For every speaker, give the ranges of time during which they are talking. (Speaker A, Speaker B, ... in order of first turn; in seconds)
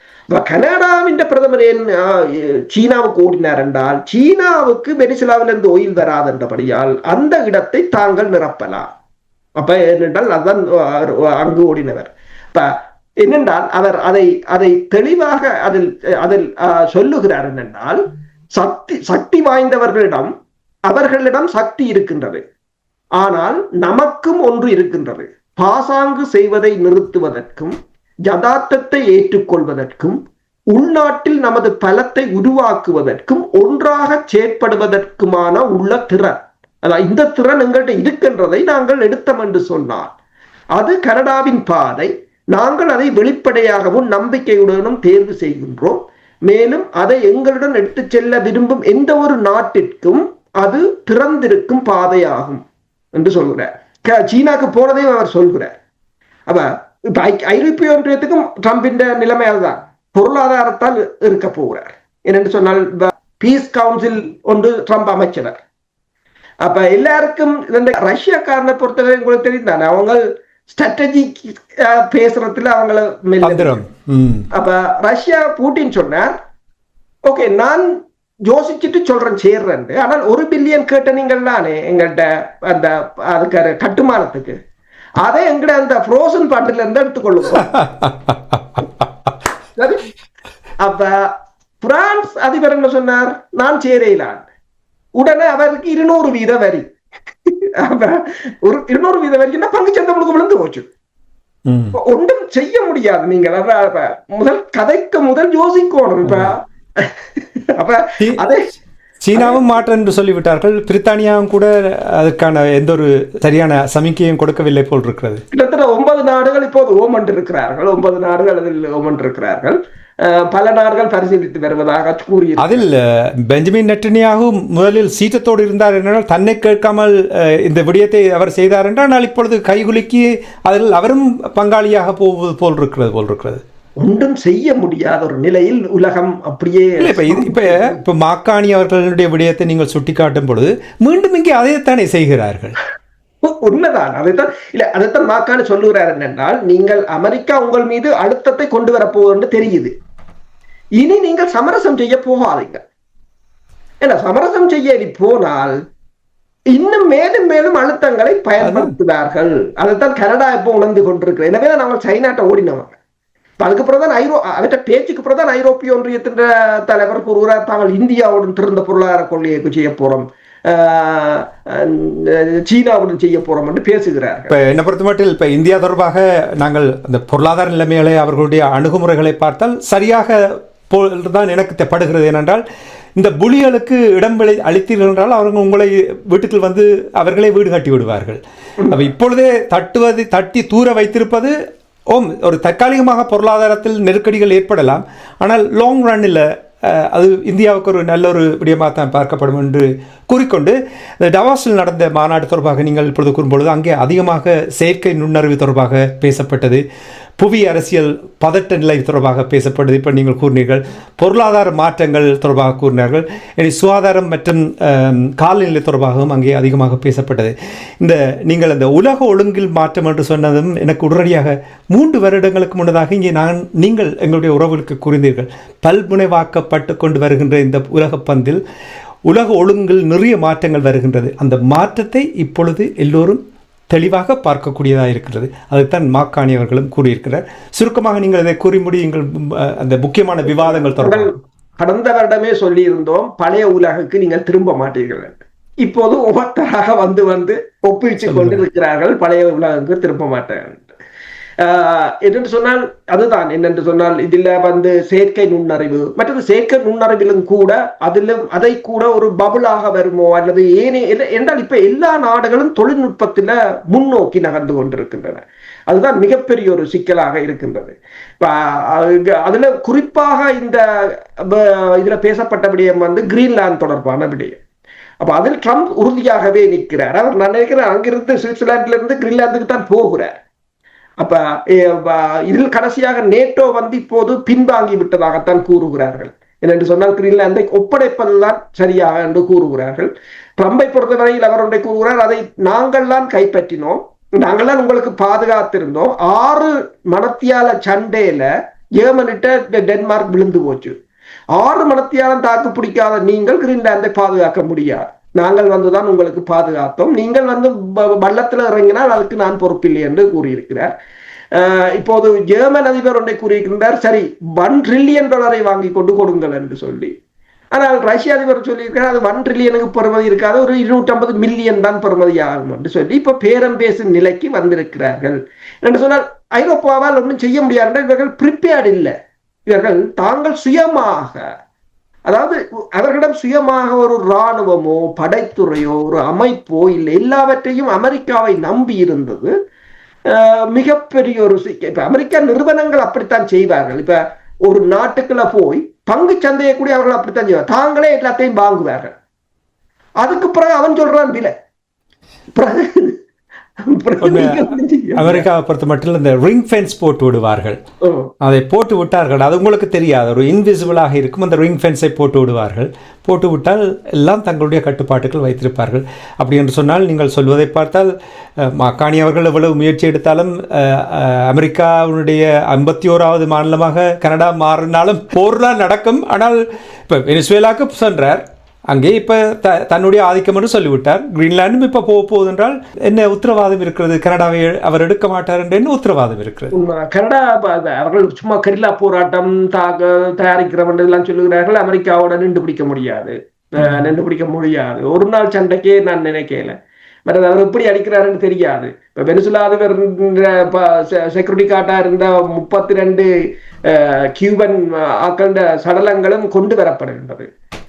Speaker A: 0.3-8.8, 9.6-18.0, 18.5-20.3, 20.9-22.4, 23.2-27.8, 28.3-30.2, 30.7-40.1, 40.8-52.6, 53.1-55.7, 56.5-65.6, 66.6-73.8, 74.5-76.3, 77.2-77.9, 78.5-84.5, 85.2-87.6, 89.8-90.0, 90.8-91.3, 91.8-94.5, 95.2-96.8, 97.5-100.9, 102.0-108.7, 109.3-109.7, 115.5-122.8, 134.0-138.0, 143.4-149.9, 151.0-152.8, 154.0-155.8, 156.7-163.0, 163.6-174.5, 188.8-189.1, 240.5-250.9, 251.6-274.6, 275.2-280.4, 281.2-300.9, 301.5-310.9, 311.5-317.1, 317.7-329.1, 329.7-331.4, 332.3-339.5, 340.3-349.1, 350.2-351.5, 352.6-353.1, 353.9-355.5, 358.0-358.3, 386.7-396.7, 397.3-403.3, 403.9-407.5
Speaker B: 73.4-74.5, 87.5-89.0, 101.7-102.0, 106.2-106.5, 109.2-115.4, 122.6-123.0, 123.5-133.6, 137.0-142.7, 158.6-158.9, 174.5-182.6, 183.2-191.5, 192.1-206.8, 207.4-228.6, 229.3-241.3, 248.3-248.6, 354.2-357.8, 358.4-386.7